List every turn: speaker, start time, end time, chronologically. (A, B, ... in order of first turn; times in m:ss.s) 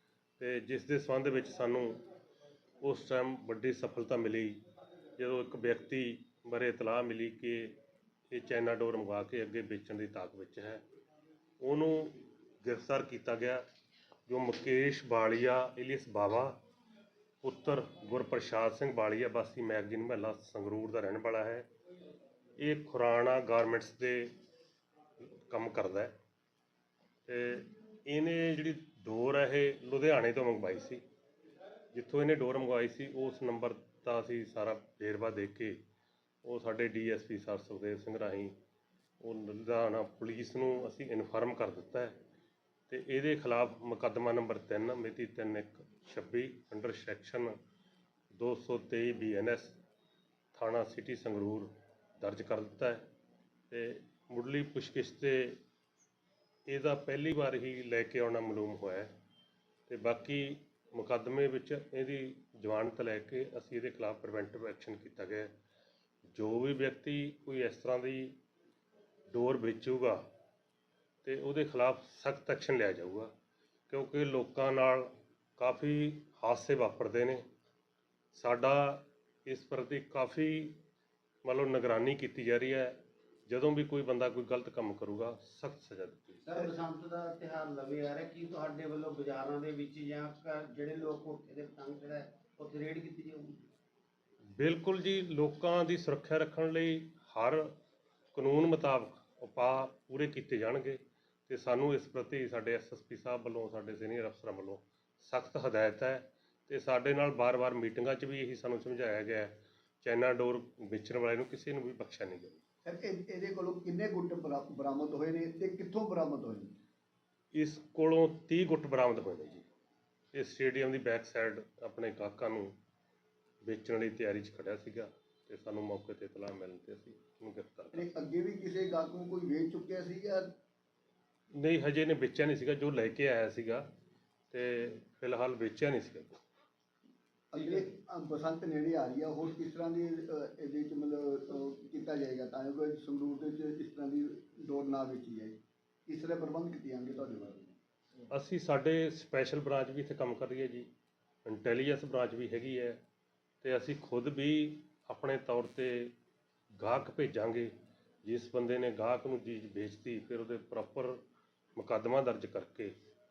0:00.4-0:02.0 A
0:02.8-0:04.6 A
0:05.2-0:07.8 A
0:08.3-0:10.8 A
0:11.6-0:13.6 A
0:14.3-0:16.6 A
0:17.4-0:21.6 A
0:22.6-0:24.3 A
0:25.4-0:26.1 A
0:27.3-0:31.0 A
0:31.9-0:35.8 A
0:36.4-0:38.6 A
0:39.2-0:42.2 A
0:42.9-0:47.6 A
0:48.3-0:49.8 A
0:50.5-0:53.0 A
0:53.7-0:55.6 A
0:56.7-0:59.1 A
0:59.9-1:05.5 A
1:06.3-1:08.4 A
1:09.3-1:10.2 A
1:11.2-1:13.3 A
1:13.9-1:17.4 A
1:18.3-1:20.8 A
1:21.4-1:26.5 A
1:26.5-1:33.6 B
1:34.6-1:37.7 A
1:38.3-1:52.6 A
1:52.8-1:56.8 C
1:57.5-1:59.7 A
2:00.3-2:02.7 A
2:03.6-2:08.1 A
2:07.9-2:10.5 C
2:11.5-2:13.8 A
2:14.5-2:16.4 A
2:17.5-2:25.6 C
2:26.1-2:27.8 C
2:28.3-2:30.9 A
2:31.4-2:33.0 A
2:33.6-2:36.1 A
2:36.8-2:37.7 A
2:38.2-2:41.2 A
2:41.8-2:42.9 A